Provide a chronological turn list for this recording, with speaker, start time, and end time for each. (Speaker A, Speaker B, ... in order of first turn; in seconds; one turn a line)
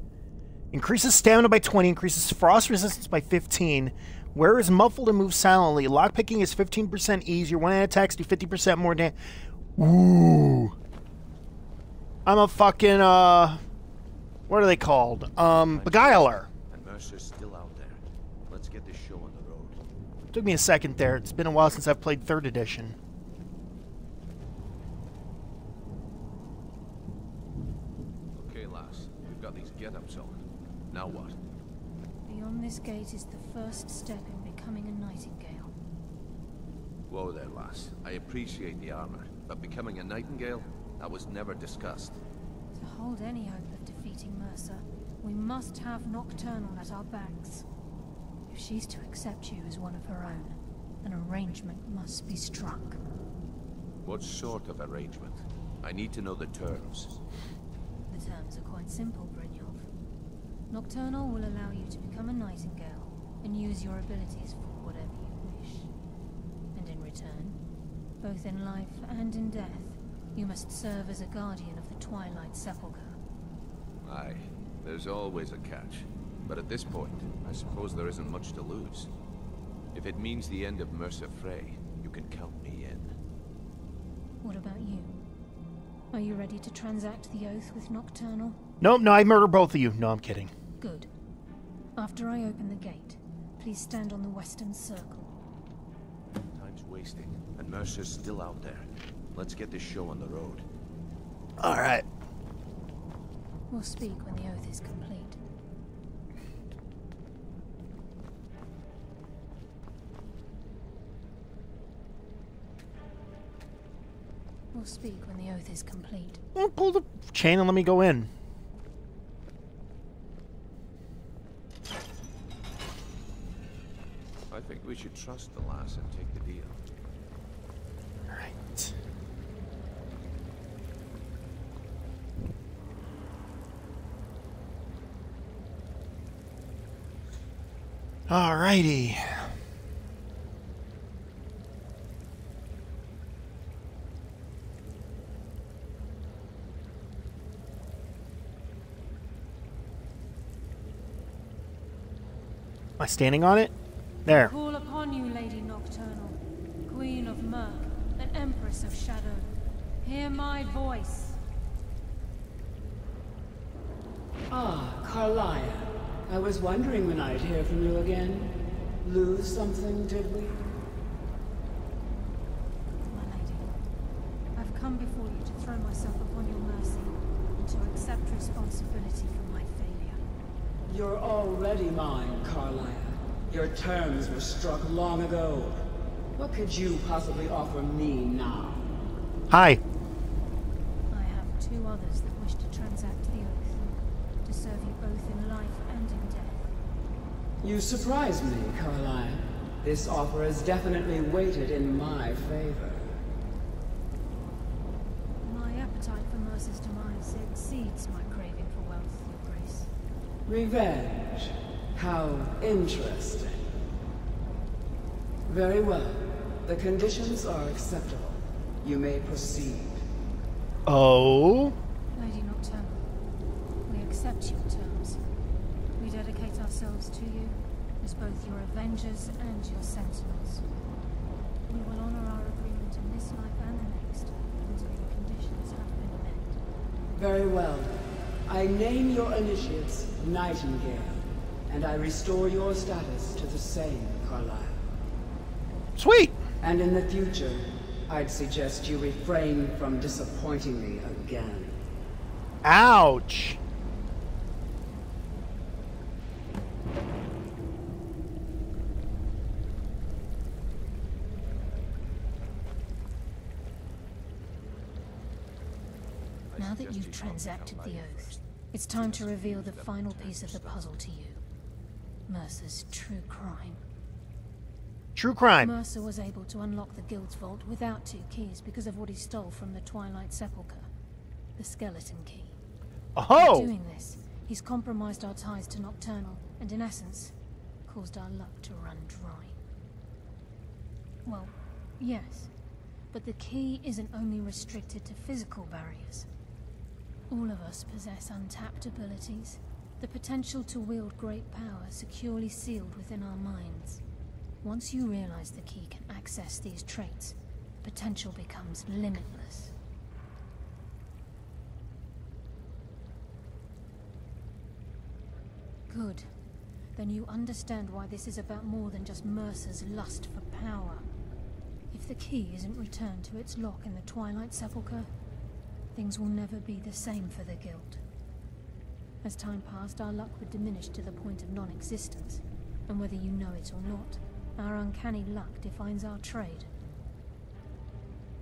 Speaker A: 0.7-9.1
Speaker A: 9.8-10.8
Speaker A: 12.2-13.6
Speaker A: 14.5-16.5
Speaker B: 15.5-19.8
Speaker A: 20.3-22.9
Speaker B: 28.3-31.4
Speaker C: 32.2-35.7
Speaker B: 37.1-42.2
Speaker C: 42.7-47.6
Speaker C: 48.5-53.0
Speaker B: 54.0-57.2
Speaker C: 58.1-59.9
Speaker C: 60.7-65.9
Speaker C: 66.7-67.6
Speaker C: 68.2-73.2
Speaker B: 74.0-79.1
Speaker B: 79.9-83.1
Speaker C: 84.4-85.1
Speaker C: 86.1-88.6
Speaker A: 88.8-90.5
Speaker C: 90.8-91.1
Speaker C: 92.0-95.3
Speaker B: 96.5-100.6
Speaker A: 101.6-102.0
Speaker C: 103.7-105.4
Speaker C: 114.7-116.4
Speaker A: 116.5-118.3
Speaker B: 124.5-126.8
Speaker A: 128.3-128.9
Speaker A: 138.3-139.5
Speaker A: 153.0-153.7
Speaker A: 154.2-154.5
Speaker C: 154.3-159.5
Speaker C: 160.0-161.4
Speaker D: 164.5-170.7
Speaker C: 173.1-173.7
Speaker C: 174.5-180.2
Speaker D: 180.9-188.9
Speaker A: 189.5-189.8
Speaker C: 191.1-193.9
Speaker C: 194.4-196.7
Speaker D: 197.6-203.2
Speaker C: 205.4-209.9
Speaker D: 210.4-213.6
Speaker D: 215.5-220.0
Speaker A: 220.8-221.8
Speaker C: 222.1-223.1
Speaker C: 223.8-225.2
Speaker C: 226.0-230.6
Speaker C: 231.7-236.6
Speaker D: 237.1-244.8
Speaker A: 245.9-246.4
Speaker D: 246.6-251.8
Speaker A: 252.6-253.6
Speaker B: 266.5-268.4
Speaker C: 266.6-271.4
Speaker B: 268.9-271.0
Speaker C: 272.3-273.8
Speaker A: 275.1-275.8
Speaker C: 275.6-280.9
Speaker C: 281.6-282.5
Speaker A: 283.1-283.7
Speaker C: 283.3-287.3
Speaker C: 287.9-289.6
Speaker C: 291.2-292.5
Speaker C: 293.1-296.3
Speaker C: 297.3-304.0
Speaker C: 304.6-309.8
Speaker C: 315.9-316.3
Speaker C: 316.9-321.1
Speaker C: 321.9-325.1
Speaker C: 325.9-328.0
Speaker C: 329.2-336.7